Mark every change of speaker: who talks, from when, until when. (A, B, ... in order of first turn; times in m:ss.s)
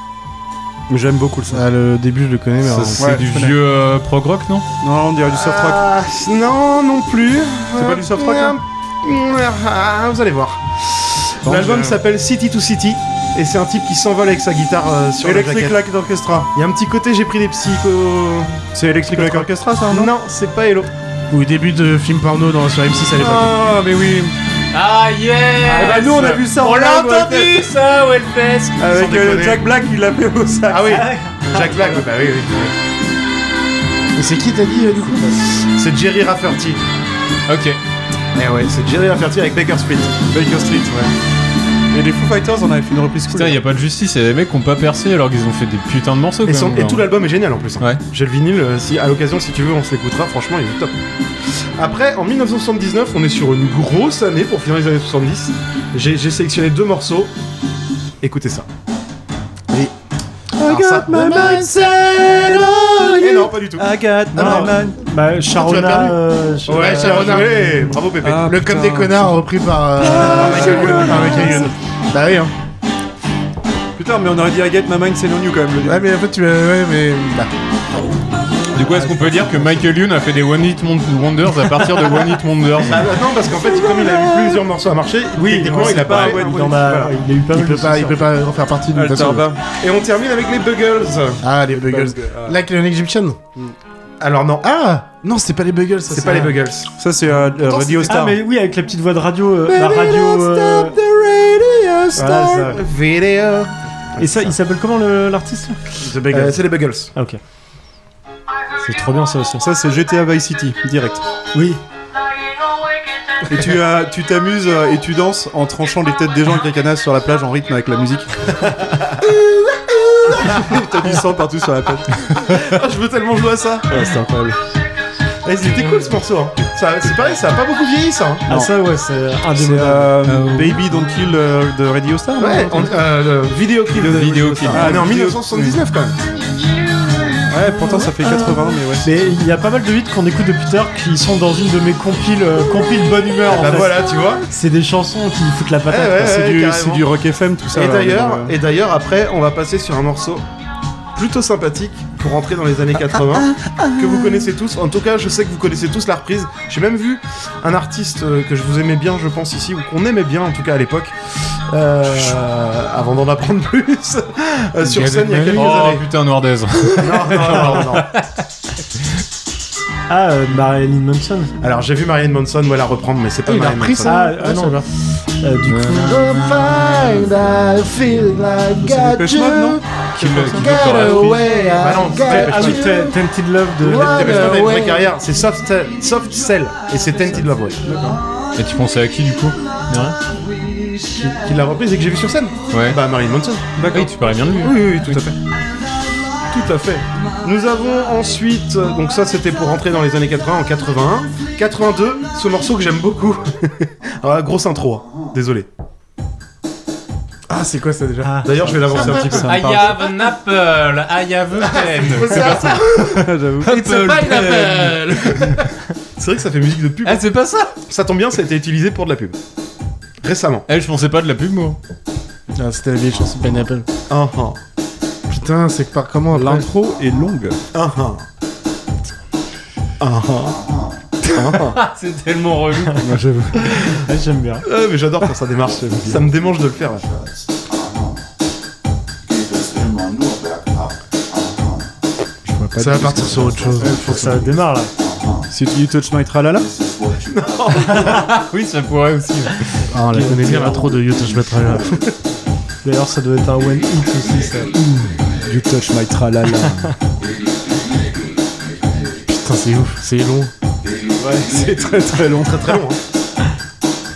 0:00.9-0:01.6 A
0:01.5-0:03.2 B
0:02.6-0:04.7 C
0:03.0-0:03.5 A
0:04.8-0:05.8 A
0:05.3-0:15.8 D
0:07.8-0:08.6 A
0:11.5-0:11.9 B
0:11.6-0:11.9 A
0:15.2-0:16.5 A
0:16.5-0:20.9 D
0:18.8-0:20.1 A
0:21.3-0:23.6 B
0:23.2-0:24.4 A
0:24.7-0:28.8 C
0:25.7-0:27.7 A
0:25.7-0:26.0 E
0:28.8-0:31.0 A
0:28.8-0:29.7 D
0:30.7-0:32.7 D
0:30.9-0:32.0 E
0:34.2-0:35.4 B
0:35.5-0:36.8 D
0:37.5-0:37.8 C
0:38.4-0:40.2 D
0:40.3-0:41.1 A
0:41.9-0:43.6 A
0:43.3-0:47.1 C
0:46.5-0:50.9 D
0:51.8-0:57.3 D
0:58.2-0:58.7 D
1:00.6-1:05.0 A
1:00.7-1:01.6 D
1:00.7-1:01.9 B
1:03.2-1:03.9 D
1:04.3-1:07.5 E
1:05.5-1:12.5 B
1:06.7-1:08.5 D
1:08.2-1:09.4 A
1:10.0-1:11.7 A
1:10.3-1:11.1 D
1:14.0-1:16.1 A
1:15.8-1:17.5 B
1:18.7-1:23.1 C
1:19.0-1:19.7 A
1:22.9-1:26.6 D
1:23.7-1:24.6 A
1:25.4-1:27.2 A
1:25.4-1:28.3 E
1:27.5-1:29.5 B
1:28.9-1:29.6 A
1:29.8-1:31.4 D
1:31.4-1:33.4 B
1:31.8-1:32.6 A
1:34.2-1:34.7 D
1:34.6-1:36.6 B
1:36.1-1:36.9 D
1:37.0-1:38.4 A
1:37.6-1:38.2 D
1:38.1-1:41.0 E
1:42.1-1:44.5 D
1:42.2-1:42.8 E
1:44.2-1:45.8 E
1:46.0-1:47.1 D
1:46.3-1:46.6 B
1:47.1-1:47.4 E
1:48.8-1:49.7 E
1:49.6-1:51.2 A
1:51.5-1:51.8 E
1:53.5-1:58.3 A
2:00.3-2:02.1 A
2:00.5-2:00.8 D
2:02.4-2:04.1 D
2:03.9-2:04.6 A
2:05.4-2:08.5 D
2:08.5-2:10.2 E
2:09.6-2:13.0 A
2:10.2-2:10.8 C
2:12.4-2:16.2 D
2:13.9-2:15.8 A
2:14.0-2:15.0 C
2:17.5-2:19.1 A
2:19.0-2:26.6 E
2:23.5-2:24.4 D
2:25.9-2:27.1 D
2:26.3-2:28.6 A
2:27.7-2:30.4 D
2:31.2-2:41.2 D
2:41.7-2:46.0 D
2:44.8-2:45.7 B
2:45.5-2:48.2 C
2:47.0-2:48.1 D
2:50.1-2:51.6 E
2:51.6-2:54.3 D
2:53.4-2:54.8 B
2:54.0-2:54.9 E
2:55.4-2:56.2 E
2:55.7-2:57.5 C
2:55.9-2:59.8 B
2:58.8-3:00.8 A
3:00.2-3:01.5 C
3:00.5-3:03.1 B
3:00.7-3:02.8 D
3:02.2-3:04.7 E
3:03.8-3:05.1 B
3:03.9-3:07.8 D
3:07.9-3:08.2 A
3:08.6-3:10.2 C
3:11.2-3:13.7 D
3:12.7-3:13.0 C
3:13.8-3:14.1 A
3:13.9-3:15.2 C
3:14.6-3:15.4 D
3:16.5-3:25.7 D
3:27.5-3:29.5 B
3:28.2-3:28.5 E
3:28.4-3:29.9 D
3:28.8-3:29.8 A
3:29.5-3:35.6 C
3:32.2-3:33.1 D
3:32.3-3:32.8 B
3:33.1-3:33.9 A
3:33.6-3:35.7 B
3:36.2-3:37.3 D
3:37.0-3:37.7 C
3:37.8-3:39.4 D
3:40.2-3:40.7 D
3:40.7-3:41.8 C
3:42.5-3:43.9 B
3:44.1-3:44.6 D
3:45.3-3:46.7 B
3:46.3-3:47.6 A
3:47.7-3:48.2 D
3:50.0-3:50.7 D
3:51.2-3:51.8 D
3:51.7-3:53.1 C
3:53.0-3:53.7 A
3:53.8-3:54.6 E
3:54.6-3:57.0 D
3:55.8-3:56.2 A
4:02.4-4:04.4 B
4:02.8-4:03.6 D
4:03.6-4:04.2 A
4:03.8-4:04.9 E
4:05.5-4:06.7 A
4:07.3-4:08.3 D
4:07.9-4:09.6 C
4:09.9-4:12.2 B
4:10.1-4:10.9 E
4:12.8-4:14.7 E
4:14.8-4:16.9 A
4:16.5-4:16.9 E
4:19.2-4:20.5 B
4:21.5-4:22.8 A
4:22.3-4:23.0 D